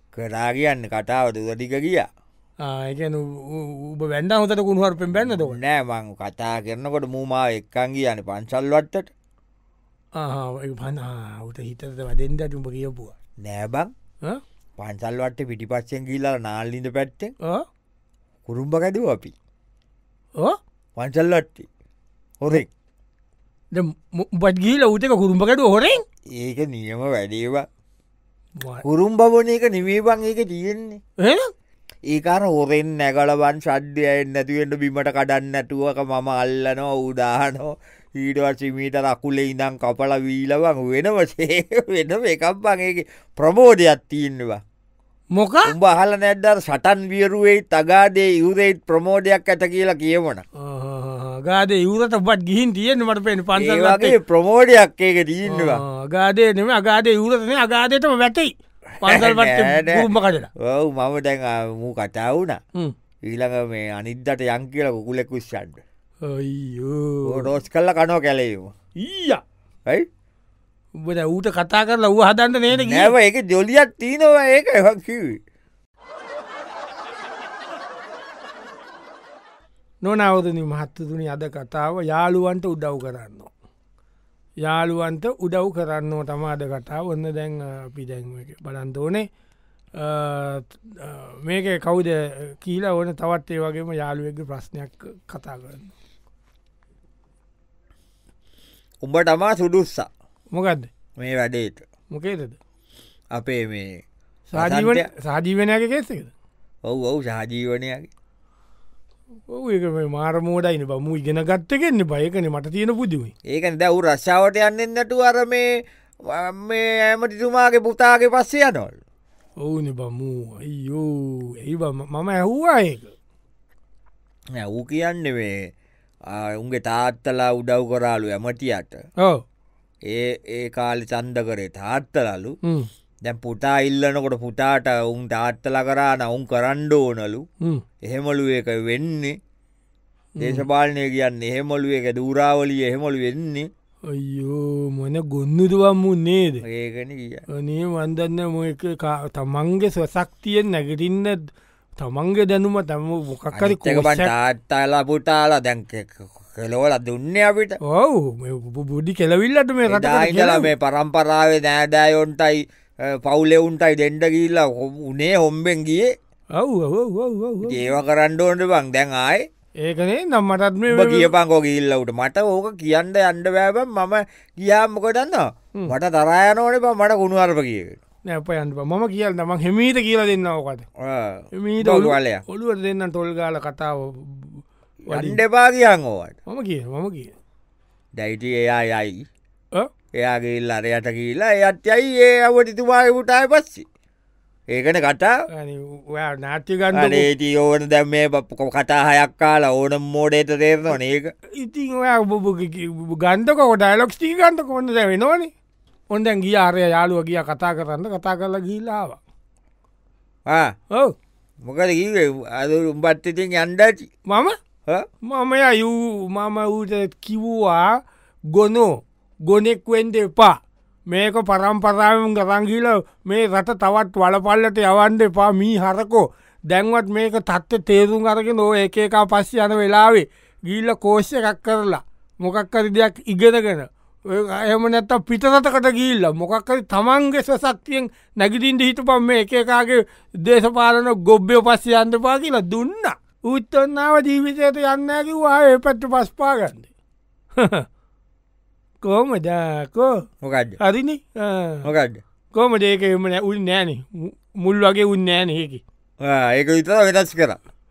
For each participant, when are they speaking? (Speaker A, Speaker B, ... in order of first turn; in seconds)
Speaker A: 0.1-2.1, 5.1-9.1, 13.4-13.9, 14.8-17.3, 18.5-19.3, 21.0-21.7, 22.4-22.7, 26.4-27.6, 28.8-31.0, 32.1-44.6, 45.6-50.4, 53.5-55.8, 59.0-60.0, 60.6-62.6, 63.3-65.8, 67.2-68.7, 72.7-75.4, 99.0-100.1, 101.2-101.8, 103.3-104.0, 104.5-105.0, 106.9-108.1, 113.5-115.7, 116.3-119.0, 124.5-125.5, 126.3-129.0, 130.1-132.5, 133.2-137.4, 138.0-139.3, 140.4-143.7, 146.6-147.4, 153.5-157.8, 159.9-166.1, 167.6-169.4, 170.9-178.0, 181.0-182.4, 185.1-186.3, 188.2-189.2, 190.2-193.8, 194.7-195.3, 196.9-201.3, 210.4-210.7, 211.6-214.1, 250.4-250.8, 251.8-252.2, 256.2-257.6
Speaker B: 2.6-5.6, 10.2-13.2, 23.7-26.0, 28.6-28.8, 31.2-31.5, 45.3-45.7, 50.6-54.1, 55.5-60.5, 66.2-67.5, 69.0-69.4, 71.0-73.1, 80.0-83.5, 84.6-89.2, 90.0-95.9, 100.5-100.9, 102.1-102.6, 104.5-106.3, 109.5-113.3, 119.6-123.1, 140.4-140.7, 144.1-146.6, 147.5-151.4, 152.0-154.3, 157.8-160.7, 166.6-167.8, 169.8-171.3, 178.3-180.9, 181.5-185.4, 186.5-187.3, 195.5-197.3, 201.6-205.5, 206.1-209.2, 214.3-214.6, 215.2-217.9, 218.5-220.6, 221.1-246.9, 247.6-247.8, 249.0-250.1, 250.8-251.9, 252.5-255.8